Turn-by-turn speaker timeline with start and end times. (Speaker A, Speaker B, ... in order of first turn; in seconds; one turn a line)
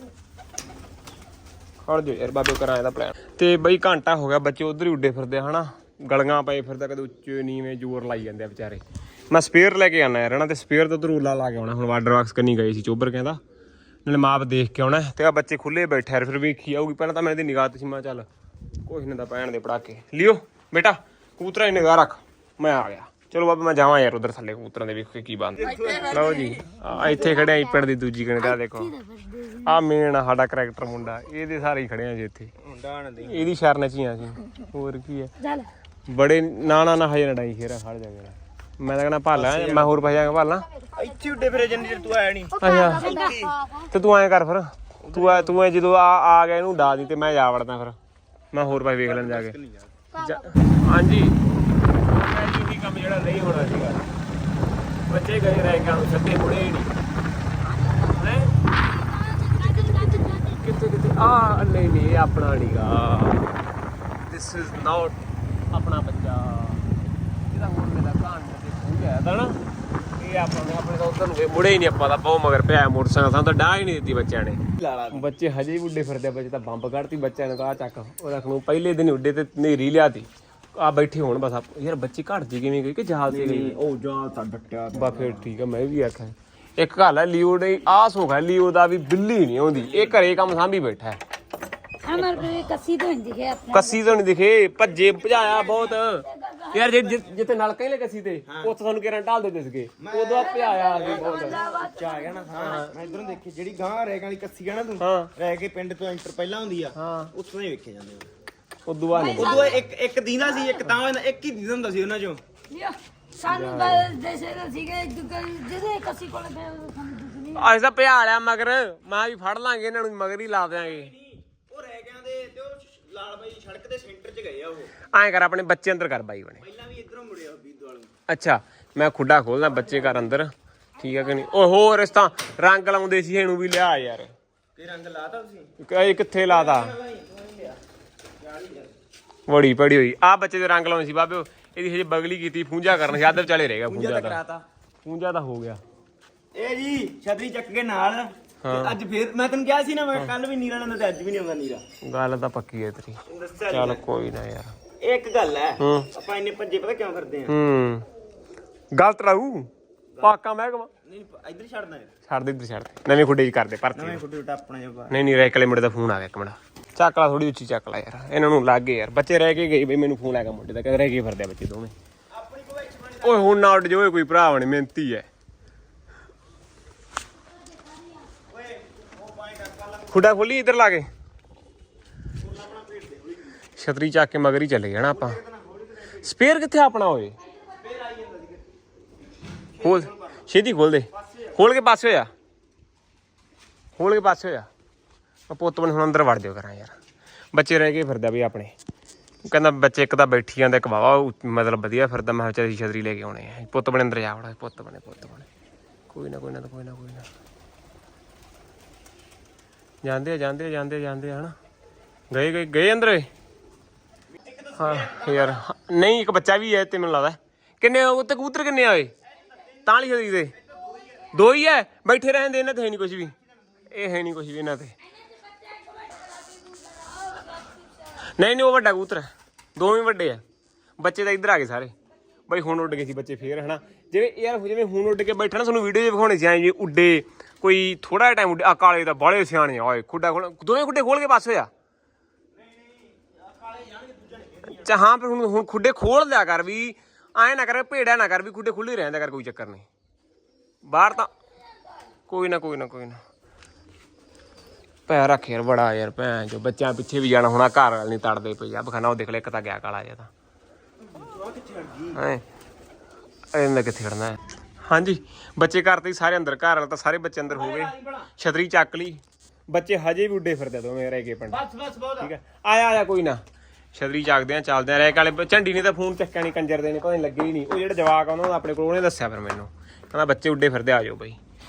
Speaker A: 1.8-13.4
Speaker A: 14.0-18.3
Speaker A: 18.8-28.9
Speaker B: 25.6-27.4
Speaker C: 26.9-27.8
Speaker C: 28.4-29.7
Speaker A: 29.6-32.5
Speaker B: 32.6-33.5
Speaker A: 33.2-35.4
Speaker C: 35.4-35.7
Speaker A: 36.1-40.7
Speaker B: 39.3-40.2
Speaker B: 40.9-43.6
Speaker C: 42.6-43.8
Speaker A: 42.6-48.0
Speaker B: 45.0-45.5
Speaker A: 48.5-49.5
Speaker B: 48.9-50.0
Speaker A: 50.1-51.4
Speaker C: 50.2-50.5
Speaker A: 52.0-54.1
Speaker A: 55.1-56.9
Speaker C: 57.6-60.5
Speaker A: 58.1-58.5
Speaker A: 59.6-63.5
Speaker A: 64.2-65.2
Speaker A: 65.7-66.9
Speaker A: 67.5-83.8
Speaker B: 74.8-75.2
Speaker B: 83.3-85.5
Speaker A: 84.9-91.2
Speaker B: 89.7-90.3
Speaker C: 92.1-94.2
Speaker A: 92.1-92.5
Speaker A: 93.7-101.6
Speaker B: 94.8-95.9
Speaker C: 95.2-97.3
Speaker B: 98.5-98.7
Speaker B: 100.0-108.3
Speaker C: 100.4-102.8
Speaker A: 102.5-102.9
Speaker A: 105.0-105.3
Speaker A: 106.9-107.3
Speaker A: 108.8-109.7
Speaker C: 109.1-109.8
Speaker B: 109.3-112.4
Speaker C: 112.7-117.7
Speaker A: 113.5-114.1
Speaker A: 117.5-121.1
Speaker B: 120.8-124.9
Speaker A: 125.1-126.6
Speaker B: 126.6-128.1
Speaker A: 128.3-134.3
Speaker B: 129.7-130.4
Speaker B: 134.8-135.7
Speaker A: 135.8-136.9
Speaker B: 136.4-137.8
Speaker B: 138.4-138.9
Speaker A: 139.5-144.4
Speaker B: 143.8-144.6
Speaker A: 145.0-145.8
Speaker B: 146.5-151.8
Speaker A: 148.6-148.9
Speaker A: 152.0-154.8
Speaker B: 153.3-154.0
Speaker B: 155.0-157.5
Speaker A: 155.8-156.1
Speaker A: 157.5-158.1
Speaker A: 158.9-160.9
Speaker B: 161.0-162.1
Speaker A: 162.3-164.2
Speaker B: 163.9-165.2
Speaker A: 165.1-171.9
Speaker B: 172.3-173.7
Speaker A: 173.2-175.3
Speaker B: 178.4-180.4
Speaker A: 180.1-181.1
Speaker B: 182.4-183.6
Speaker A: 183.8-185.4
Speaker B: 185.1-186.2
Speaker A: 186.1-187.3
Speaker B: 187.7-188.7
Speaker B: 189.7-190.4
Speaker A: 189.8-192.3
Speaker B: 191.1-191.6
Speaker A: 194.0-194.7
Speaker A: 195.5-197.0
Speaker A: 197.5-198.7
Speaker A: 199.4-205.5
Speaker A: 206.1-207.3
Speaker A: 210.0-211.5
Speaker A: 212.3-213.3
Speaker B: 214.3-215.6
Speaker A: 214.7-219.1
Speaker B: 219.5-219.8
Speaker A: 219.8-220.6
Speaker B: 220.6-221.3
Speaker A: 221.2-223.3
Speaker A: 223.8-224.9
Speaker C: 225.4-227.7
Speaker A: 228.3-230.4
Speaker A: 231.0-231.9
Speaker A: 232.5-241.7
Speaker B: 242.5-245.0
Speaker A: 244.8-249.9
Speaker A: 250.8-251.3
Speaker A: 252.3-253.2
Speaker A: 255.1-260.3
Speaker B: 261.0-262.2
Speaker A: 262.1-262.4
Speaker A: 263.5-271.6
Speaker B: 267.5-268.3
Speaker B: 271.5-272.3
Speaker A: 272.2-273.4
Speaker A: 273.9-281.4